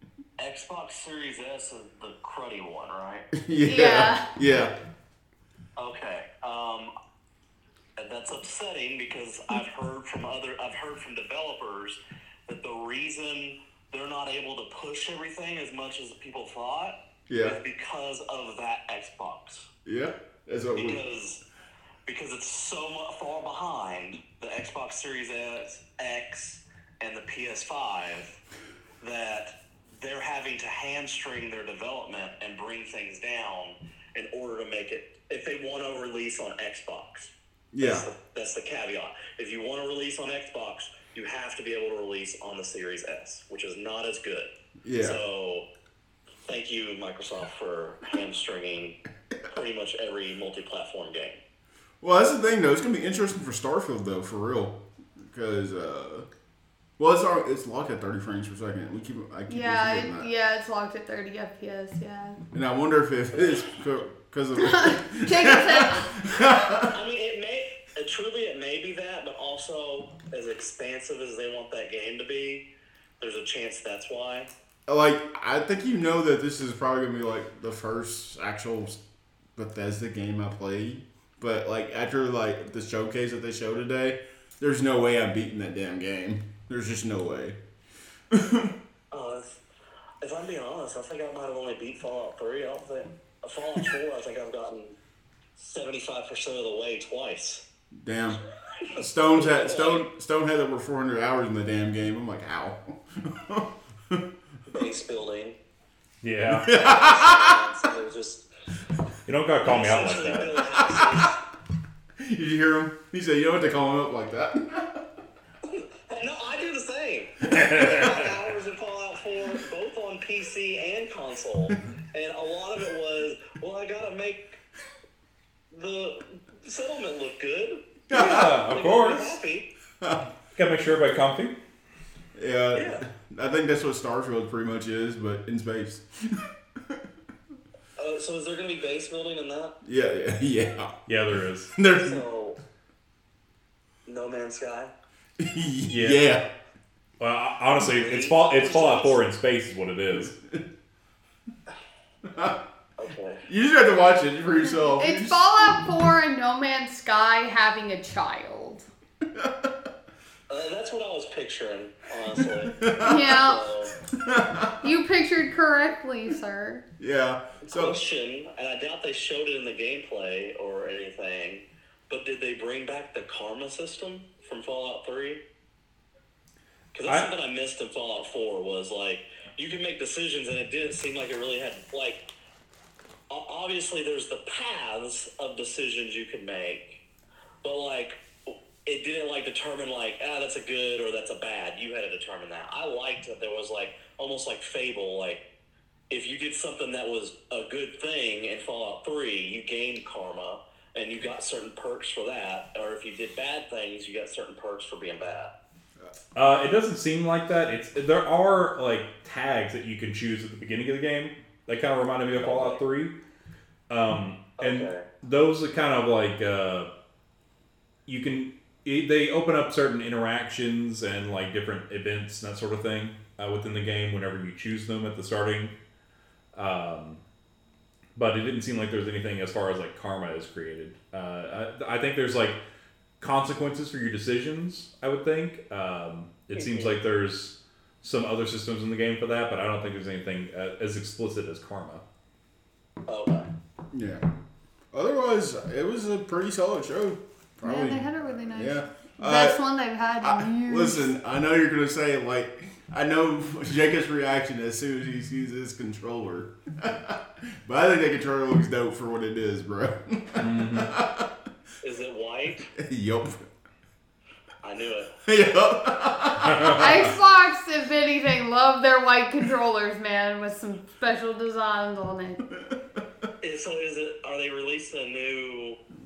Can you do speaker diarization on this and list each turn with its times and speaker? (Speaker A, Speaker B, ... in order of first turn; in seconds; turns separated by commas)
Speaker A: 0.4-3.3, Speaker B: 3.3-4.7, Speaker C: 3.6-4.3, Speaker A: 5.8-6.9, Speaker A: 8.0-19.7, Speaker B: 17.3-17.6, Speaker B: 19.8-21.0, Speaker A: 20.8-21.4, Speaker A: 22.0-28.4, Speaker A: 29.0-45.7, Speaker B: 37.7-38.0, Speaker B: 44.8-45.2, Speaker A: 46.5-51.4, Speaker B: 52.0-56.2, Speaker B: 57.0-60.3, Speaker C: 59.5-62.4, Speaker B: 62.5-67.0, Speaker C: 64.6-66.1, Speaker A: 66.8-72.7, Speaker A: 73.2-74.5, Speaker B: 74.9-79.0, Speaker B: 79.5-87.6, Speaker B: 88.3-88.7, Speaker A: 89.1-89.6, Speaker A: 90.2-95.0, Speaker A: 95.5-97.6, Speaker B: 98.0-98.4, Speaker A: 98.6-100.1, Speaker B: 99.0-104.3, Speaker A: 104.7-105.6, Speaker D: 106.2-106.7, Speaker B: 106.5-107.6, Speaker A: 106.7-108.5, Speaker D: 109.2-110.6, Speaker A: 109.6-111.4, Speaker B: 110.7-111.3, Speaker B: 112.2-115.0, Speaker A: 115.6-124.6, Speaker D: 117.5-118.2, Speaker A: 125.7-129.7, Speaker B: 128.1-128.6, Speaker D: 128.1-129.4, Speaker B: 130.0-130.3, Speaker D: 130.5-131.6, Speaker B: 132.3-137.0, Speaker A: 132.7-133.0, Speaker A: 138.0-139.8, Speaker B: 139.8-141.0, Speaker D: 141.1-141.7, Speaker B: 141.8-142.2, Speaker A: 141.9-142.6, Speaker A: 144.1-144.9, Speaker B: 145.4-146.5, Speaker D: 145.9-146.3, Speaker D: 147.2-150.3, Speaker A: 147.8-149.2, Speaker B: 150.3-150.6, Speaker B: 152.2-152.6, Speaker A: 153.0-153.4, Speaker B: 153.4-155.5, Speaker C: 154.6-158.8, Speaker B: 159.3-159.7, Speaker A: 160.5-163.9, Speaker B: 162.7-163.3, Speaker C: 163.0-163.7, Speaker B: 164.1-164.8, Speaker C: 164.8-166.8, Speaker B: 167.0-168.0, Speaker A: 167.6-175.4, Speaker A: 176.9-182.2, Speaker A: 183.3-187.0, Speaker A: 187.6-195.4, Speaker A: 196.1-205.5, Speaker D: 206.3-213.1, Speaker A: 212.4-212.8, Speaker D: 213.9-216.9, Speaker A: 214.6-215.1, Speaker D: 218.1-225.7, Speaker D: 226.5-227.2, Speaker D: 228.1-232.6, Speaker D: 233.2-242.0, Speaker A: 236.5-237.0, Speaker A: 243.1-243.5, Speaker B: 243.9-244.2, Speaker B: 244.9-249.6, Speaker C: 247.6-251.1, Speaker B: 250.2-261.3, Speaker D: 260.4-260.9, Speaker A: 261.8-262.7, Speaker B: 262.7-263.5, Speaker A: 264.6-265.1, Speaker B: 265.2-267.1, Speaker C: 266.7-272.4, Speaker A: 273.4-275.8